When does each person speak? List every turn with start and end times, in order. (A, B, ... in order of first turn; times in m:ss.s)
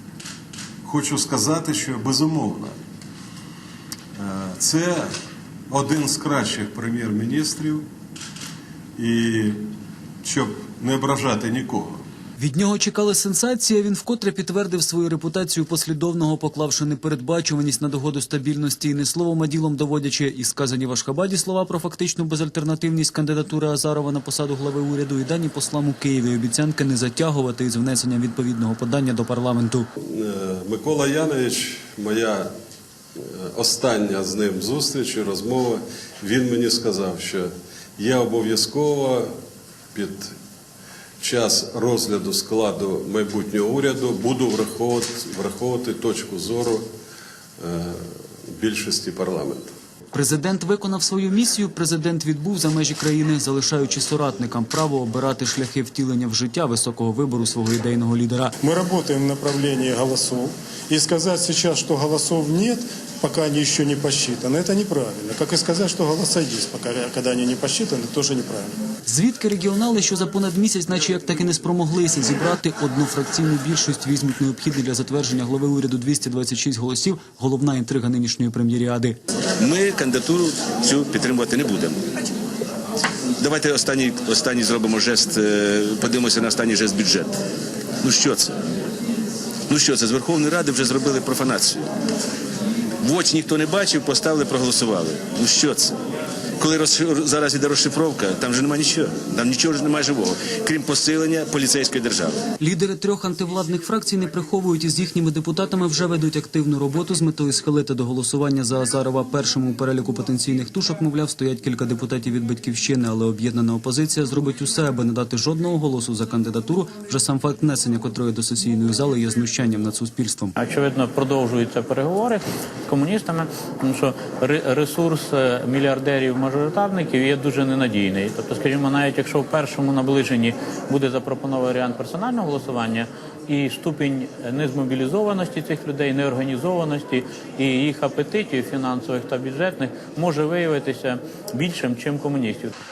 0:00.9-0:02.7 A
0:04.2-0:05.0 A
0:05.7-0:07.8 A
0:09.0-0:09.6 A
0:10.2-0:11.9 A
0:12.4-0:29.9 B
0:30.0-0:32.5 A
0:33.2-0:39.3 A
0:39.9-0:40.3 A
0:41.2-0:46.9 A
0:47.6-0:49.7 A
0:50.1-0:58.5 B
0:58.6-1:08.7 C
1:09.1-1:19.2 B
1:19.6-1:22.0 D
1:23.4-1:27.3 D
1:28.0-1:28.6 D
1:29.7-1:31.8 D
1:33.0-1:35.9 D
1:36.6-1:42.4 D
1:42.6-2:00.5 B
2:00.6-2:22.7 E